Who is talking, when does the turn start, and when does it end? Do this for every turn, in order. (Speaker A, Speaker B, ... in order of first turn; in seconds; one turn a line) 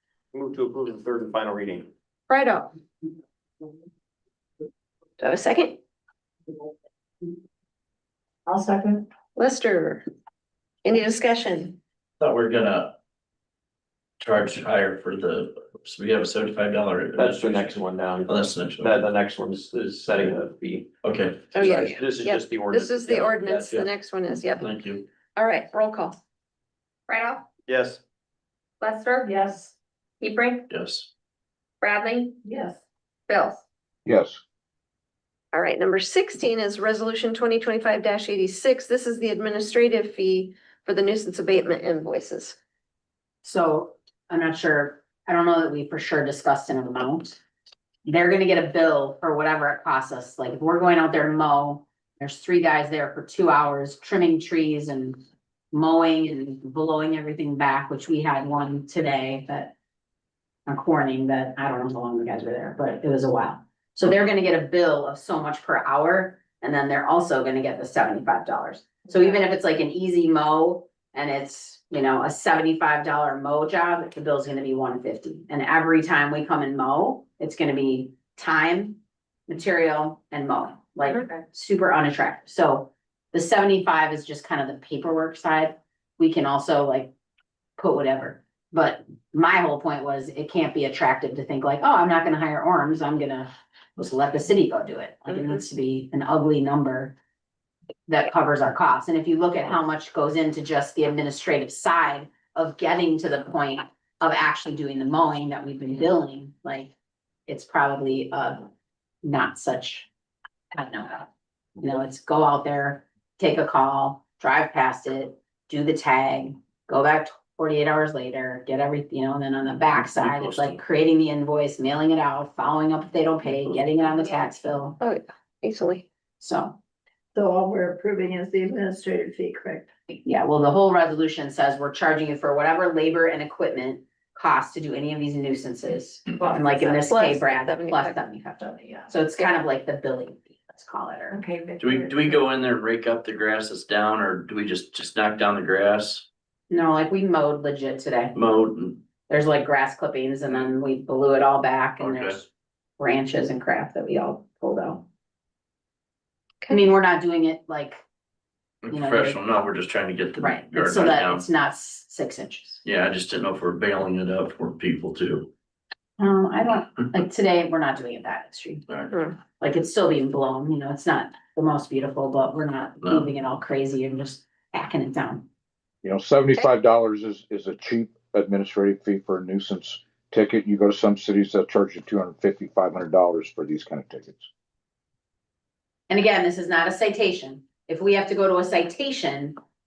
Speaker A: 0.3-1.9
Speaker B: 2.3-2.7
Speaker B: 5.2-5.8
Speaker B: 9.4-10.1
Speaker B: 10.8-11.8
Speaker C: 12.2-13.0
Speaker C: 14.2-19.0
Speaker A: 17.2-20.9
Speaker C: 21.0-22.0
Speaker A: 21.6-23.9
Speaker B: 21.6-24.8
Speaker C: 23.5-23.9
Speaker C: 24.6-25.1
Speaker B: 25.4-26.2
Speaker D: 27.1-27.5
Speaker A: 27.7-28.0
Speaker D: 28.8-30.7
Speaker E: 29.2-29.6
Speaker C: 30.7-31.1
Speaker D: 31.8-32.8
Speaker E: 32.5-32.7
Speaker D: 33.3-33.6
Speaker F: 34.1-34.4
Speaker B: 35.5-42.6
Speaker G: 43.4-47.4
Speaker G: 48.1-59.7
Speaker G: 60.7-87.1
Speaker B: 81.2-81.4
Speaker G: 87.8-97.2
Speaker G: 98.1-106.9
Speaker G: 107.5-108.7
Speaker G: 109.2-110.1
Speaker G: 110.7-111.3
Speaker G: 111.8-125.0
Speaker C: 120.0-120.8
Speaker B: 125.0-126.1
Speaker G: 126.4-126.8
Speaker E: 127.4-129.8
Speaker G: 130.1-141.4
Speaker E: 136.4-136.7
Speaker B: 136.8-138.2
Speaker B: 141.5-141.8
Speaker C: 141.8-146.3
Speaker G: 146.7-148.3
Speaker C: 148.3-149.0
Speaker G: 149.3-152.5
Speaker C: 152.0-152.4
Speaker G: 153.0-155.0
Speaker G: 156.7-158.0
Speaker C: 158.8-161.4
Speaker G: 158.9-159.4
Speaker G: 160.4-162.8
Speaker C: 162.8-165.5
Speaker G: 166.2-168.8
Speaker C: 168.9-169.1
Speaker G: 169.6-175.5
Speaker C: 173.0-173.3
Speaker F: 176.0-184.5
Speaker G: 186.1-189.6